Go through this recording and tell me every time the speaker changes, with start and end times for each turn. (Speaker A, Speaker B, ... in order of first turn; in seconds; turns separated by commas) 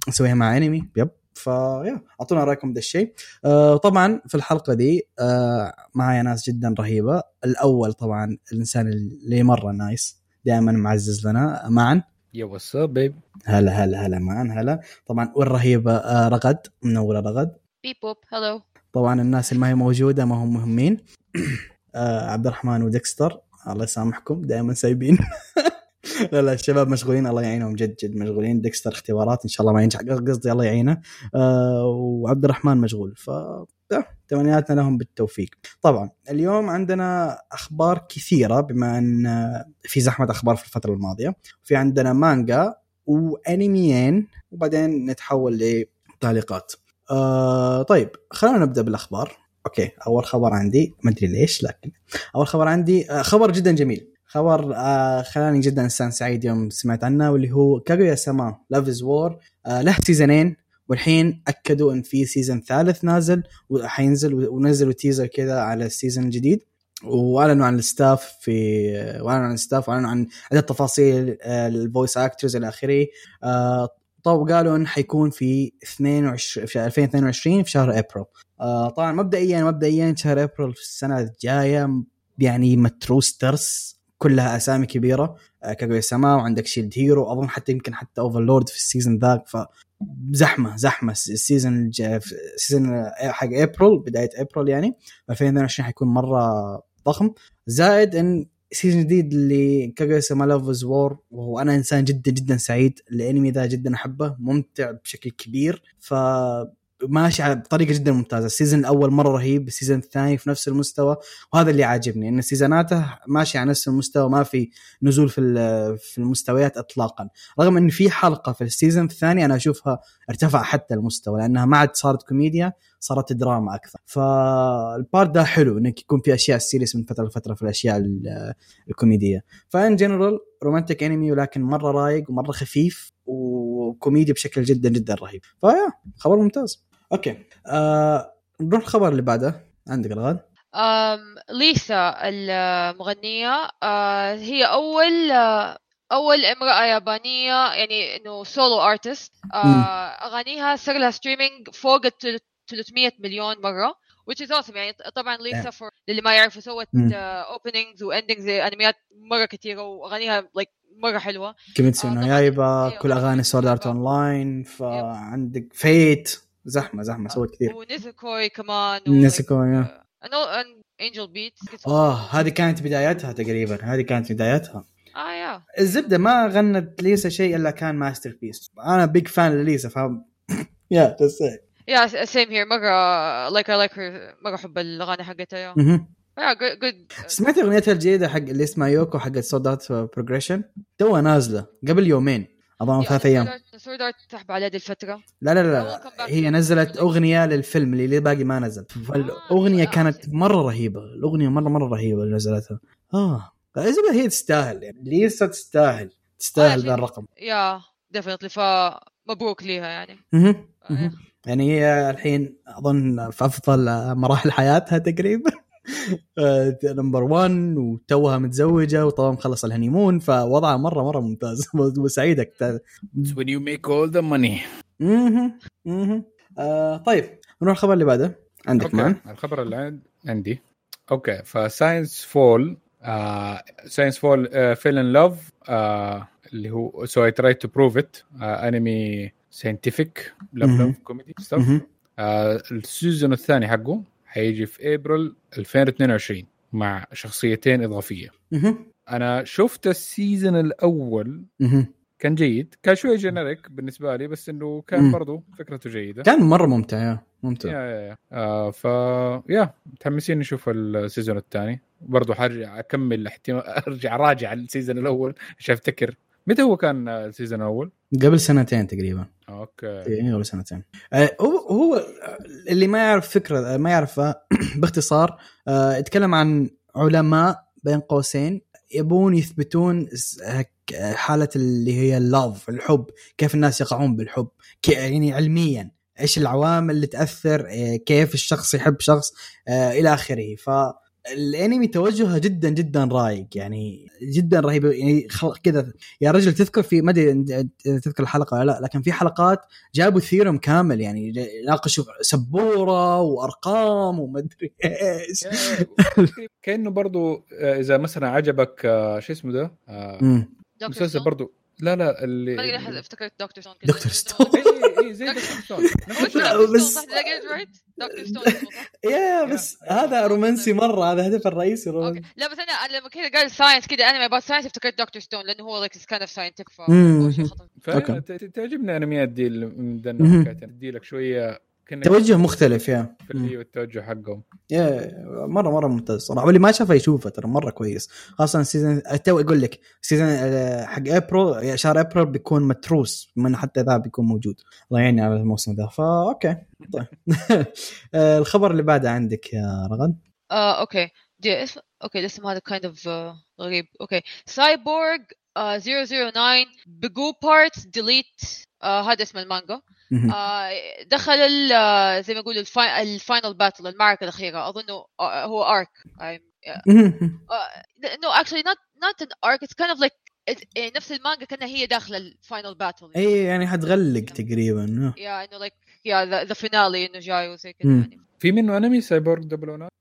Speaker A: 0.1-12.0, Speaker B: 12.4-13.2, Speaker A: 13.5-17.6, Speaker C: 17.8-18.6, Speaker A: 18.9-25.8, Speaker A: 26.3-140.4, Speaker C: 140.8-164.0, Speaker A: 149.6-149.9, Speaker A: 161.8-167.8, Speaker C: 167.7-172.4, Speaker A: 169.1-169.9, Speaker A: 171.8-174.9, Speaker C: 175.2-176.1, Speaker A: 175.8-181.6, Speaker C: 181.9-185.8, Speaker A: 185.8-186.1, Speaker C: 186.4-187.7, Speaker A: 187.3-193.5, Speaker C: 193.0-197.2, Speaker A: 195.4-207.2, Speaker C: 199.1-200.3, Speaker C: 206.6-210.2, Speaker A: 210.3-223.4, Speaker C: 210.8-211.2, Speaker B: 223.2-224.6, Speaker A: 225.0-229.2, Speaker B: 228.8-230.6, Speaker B: 231.1-248.3, Speaker A: 240.6-241.0, Speaker A: 241.6-241.8, Speaker A: 248.5-248.8, Speaker B: 249.1-251.5, Speaker A: 251.6-251.9, Speaker B: 252.2-256.3, Speaker A: 256.2-257.7, Speaker B: 257.6-267.9, Speaker A: 268.1-269.3, Speaker B: 269.5-270.1, Speaker A: 270.1-306.3, Speaker B: 305.4-310.3, Speaker A: 310.2-310.5, Speaker C: 310.8-311.3, Speaker B: 310.9-312.9, Speaker C: 312.6-315.6, Speaker A: 313.9-315.0, Speaker B: 314.5-316.7, Speaker C: 316.1-318.9, Speaker A: 316.2-317.6, Speaker A: 318.1-322.2, Speaker B: 319.4-320.0, Speaker C: 319.9-320.7, Speaker C: 322.0-327.7, Speaker A: 326.9-328.2, Speaker B: 327.8-332.4, Speaker A: 330.2-330.5, Speaker A: 332.0-333.5, Speaker B: 333.3-334.4, Speaker A: 334.7-350.2, Speaker C: 350.5-366.9, Speaker A: 366.9-367.4, Speaker C: 367.5-373.3, Speaker A: 373.1-375.2, Speaker C: 375.2-378.2, Speaker A: 377.8-378.1, Speaker B: 378.4-379.9